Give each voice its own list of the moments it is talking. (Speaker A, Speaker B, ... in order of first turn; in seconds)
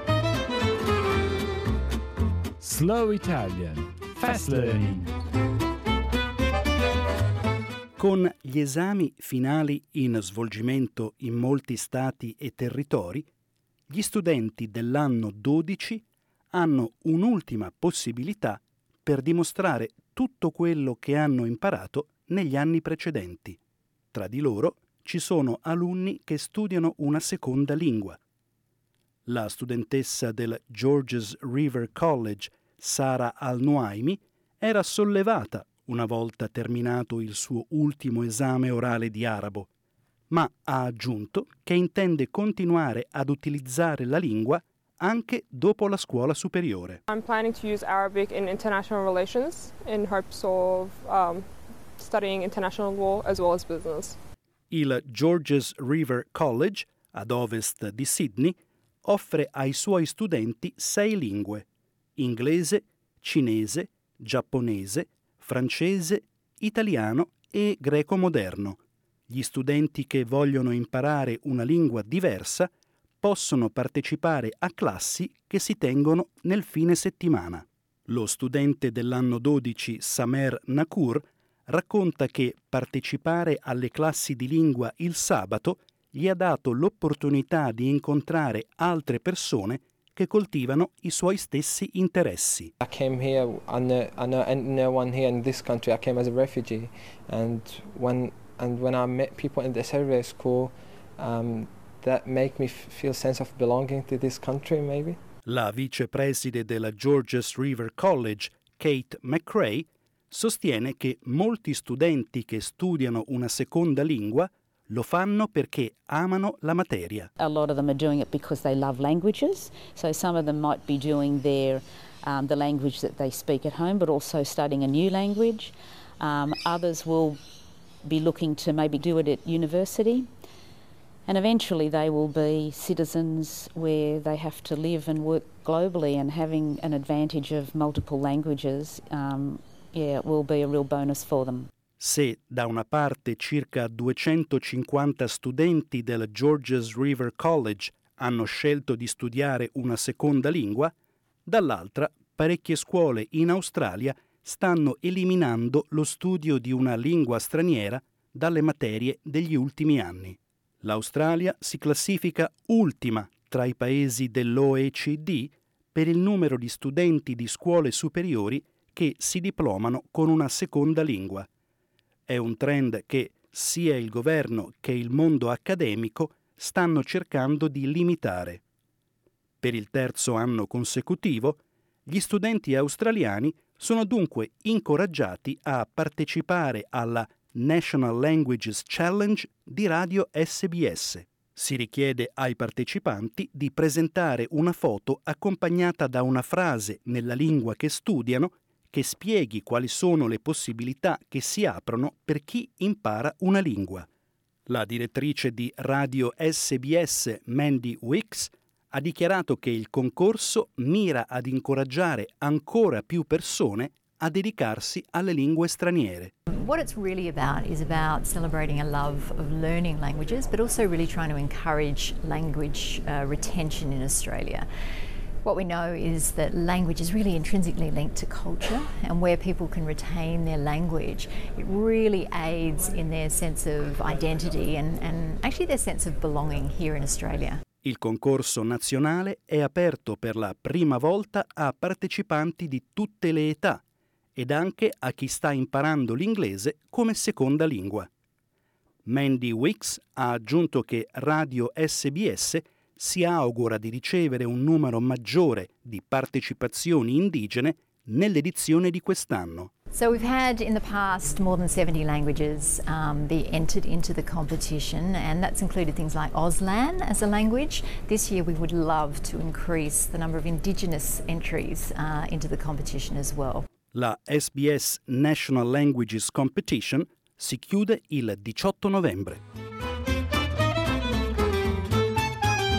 Speaker A: 2.6-5.1
Speaker B: 8.0-13.3, 13.9-23.6, 24.1-28.2, 29.2-39.7, 40.3-47.0, 54.7-61.6, 62.2-72.7, 73.2-92.7, 105.4-117.3, 142.0-150.9, 151.4-171.5, 172.3-178.6, 179.6-204.1, 204.7-216.3, 237.8-243.8, 244.3-248.1, 249.1-259.7, 273.9-279.4
Speaker C: 47.1-54.2
Speaker D: 92.8-105.2
Speaker E: 117.4-127.4, 128.0-130.3, 131.2-141.7
Speaker F: 216.5-224.7, 225.4-237.6, 259.9-273.7